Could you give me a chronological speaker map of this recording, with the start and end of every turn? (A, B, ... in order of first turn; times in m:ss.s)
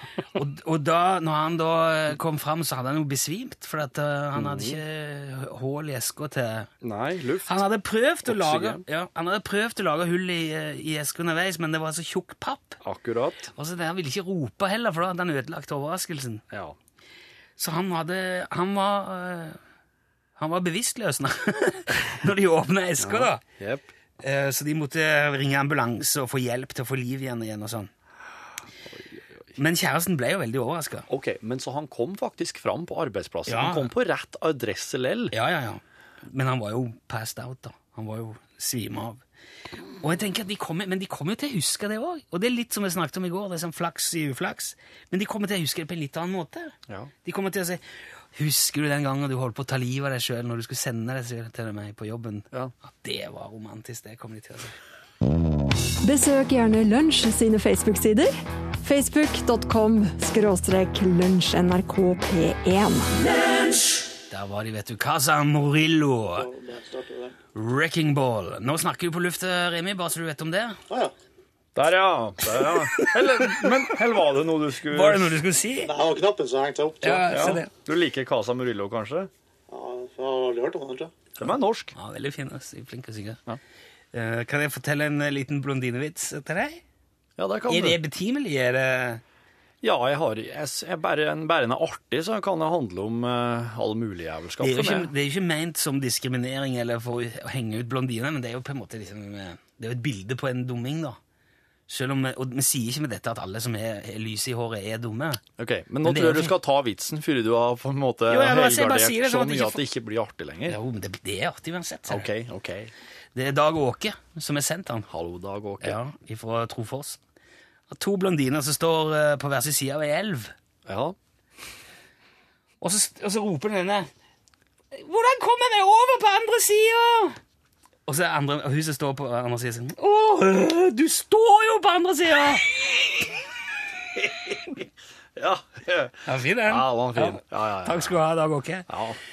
0:00.3-0:06.7 A
0:04.4-0:04.8 B
0:06.8-0:07.6 B
0:07.5-0:12.8 A
0:08.3-0:08.8 B
0:12.8-0:13.5 B
0:13.5-0:16.4 A
0:16.5-0:16.8 B
0:17.6-0:19.6 A
0:20.4-0:23.4 A
0:23.0-0:23.9 B
0:24.2-0:27.9 A
0:28.9-0:29.2 B
0:29.6-0:31.0 A
0:31.1-0:35.3 B
0:33.5-0:33.9 A
0:35.3-0:39.2 A
0:40.0-0:47.8 A
0:48.3-0:54.7 A
0:56.0-1:03.1 C
1:04.3-1:06.5 A
1:06.3-1:07.3 D
1:07.5-1:10.8 A
1:11.7-1:15.4 B
1:12.9-1:13.7 A
1:14.9-1:15.9 A
1:15.8-1:17.4 D
1:17.0-1:17.7 A
1:17.3-1:19.3 B
1:19.7-1:21.1 D
1:21.4-1:21.9 B
1:21.9-1:23.4 A
1:24.1-1:26.8 A
1:27.4-1:28.0 B
1:27.7-1:29.2 A
1:29.8-1:35.1 B
1:34.6-1:41.2 A
1:41.9-1:45.4 A
1:45.6-1:50.8 B
1:46.0-1:46.5 A
1:48.3-1:49.8 A
1:50.7-1:52.3 A
1:52.1-1:52.9 B
1:53.3-1:55.1 A
1:55.1-1:56.0 B
1:55.8-1:57.2 A
1:57.9-2:00.5 A
2:00.8-2:01.1 B
2:02.8-2:04.1 A
2:04.9-2:07.4 A
2:08.1-2:12.7 A
2:15.4-2:18.2 B
2:16.2-2:18.9 A
2:18.9-2:19.2 B